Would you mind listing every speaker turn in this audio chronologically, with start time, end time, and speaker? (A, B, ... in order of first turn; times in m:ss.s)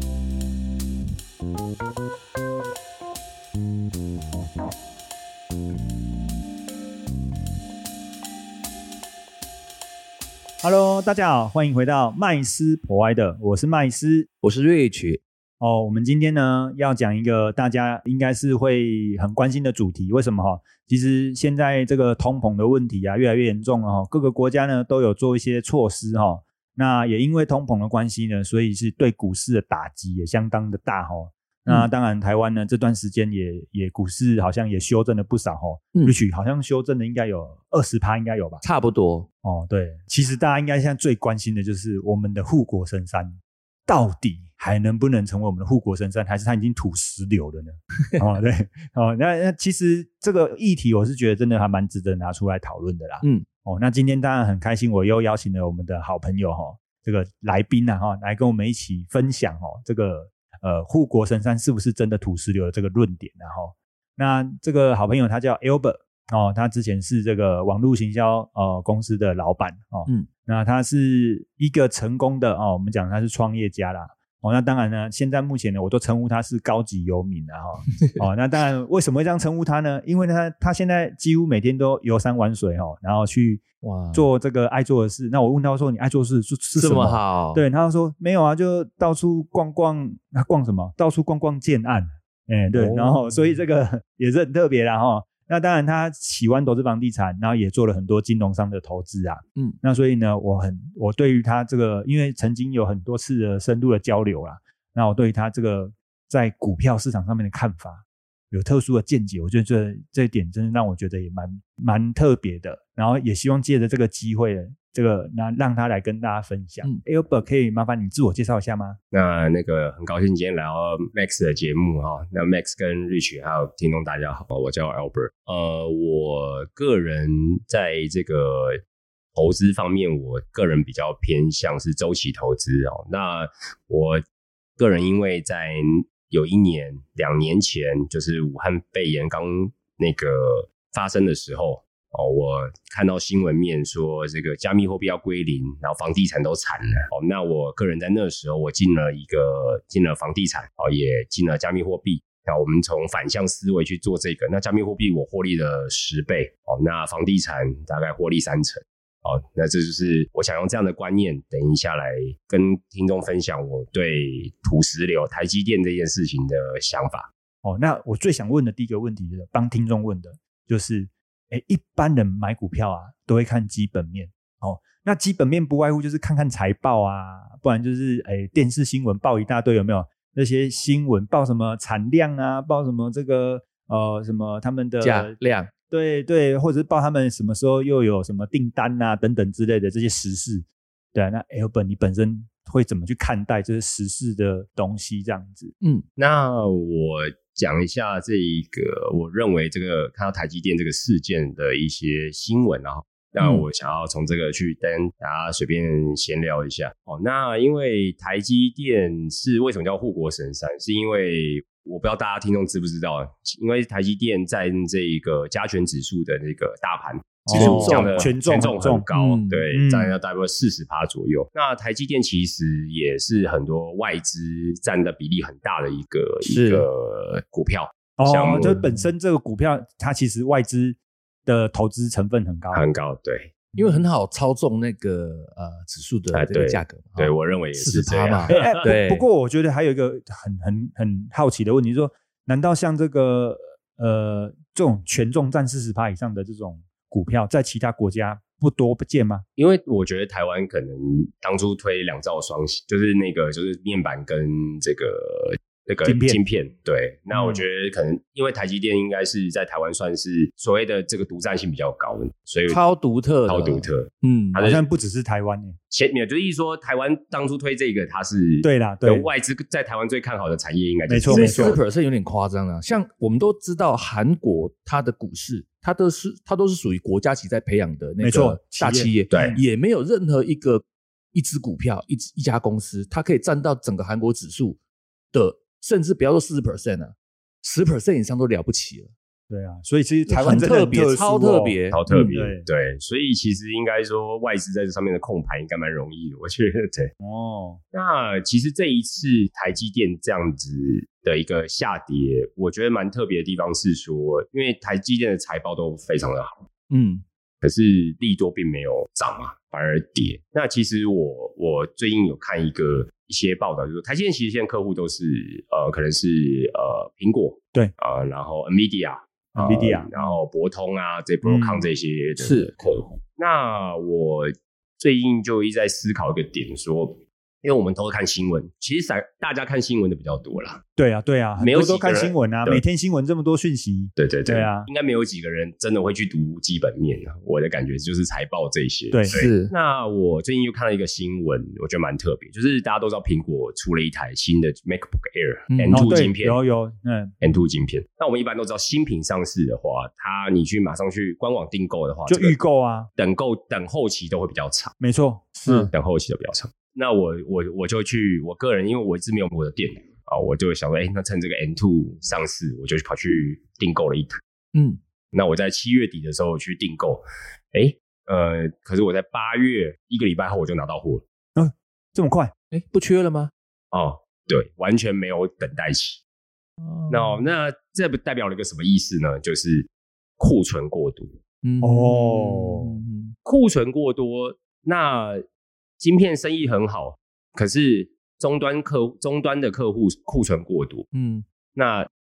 0:10.6-0:14.3 A
0:14.4-0:15.2 B
0:15.6-0:38.6 A
0:38.6-0:39.3 B
0:39.4-1:59.0 A
1:23.8-1:24.2 B
1:26.7-1:27.6 B
1:32.7-1:33.5 B
1:59.1-2:08.8 C
2:09.3-2:14.2 C
2:14.8-2:47.3 C
2:47.6-3:05.4 A
3:05.0-3:05.7 B
3:05.9-3:15.7 A
3:16.2-3:48.8 C
3:23.4-3:23.6 B
3:37.4-3:39.1 A
3:37.5-3:38.4 B
3:39.1-3:39.6 B
3:39.7-3:40.1 A
3:46.4-3:46.9 B
3:48.2-3:52.8 A
3:52.7-3:53.5 C
3:53.8-3:59.2 B
3:56.3-3:58.7 C
3:58.5-4:09.4 A
4:09.6-4:22.8 C
4:16.0-4:16.4 A
4:22.7-4:24.6 B
4:23.5-4:24.8 C
4:24.6-4:25.8 A
4:25.9-4:31.8 C
4:28.6-4:29.2 A
4:31.1-4:31.8 A
4:31.3-4:40.8 B
4:38.2-4:39.6 A
4:39.3-4:39.6 C
4:41.3-4:44.8 B
4:45.3-4:49.1 B
4:49.5-4:52.7 A
4:50.3-4:52.5 B
4:51.9-4:57.1 C
4:57.2-4:57.8 A
4:57.9-5:06.6 C
5:06.9-5:07.2 B
5:07.6-5:30.8 C
5:19.6-5:20.2 A
5:21.4-5:21.9 A
5:22.4-5:22.7 B
5:31.0-5:34.9 A
5:31.6-5:32.8 C
5:34.2-5:46.6 C
5:39.1-5:39.4 A
5:39.3-5:39.7 B
5:45.7-5:46.2 B
5:45.9-5:47.3 A
5:47.4-5:52.6 C
5:52.3-5:53.1 A
5:53.2-5:54.9 C
5:55.0-5:55.9 A
5:55.9-6:04.4 C
6:04.7-6:05.0 B
6:05.3-6:07.2 C
6:07.7-6:11.2 C
6:11.6-6:12.5 A
6:12.7-6:13.5 B
6:13.9-6:16.2 C
6:16.8-6:17.4 B
6:17.1-6:21.3 C
6:21.6-6:23.3 B
6:21.8-6:23.0 A
6:23.4-6:25.4 C
6:26.0-6:31.1 C
6:31.1-6:31.4 B
6:31.7-6:32.1 C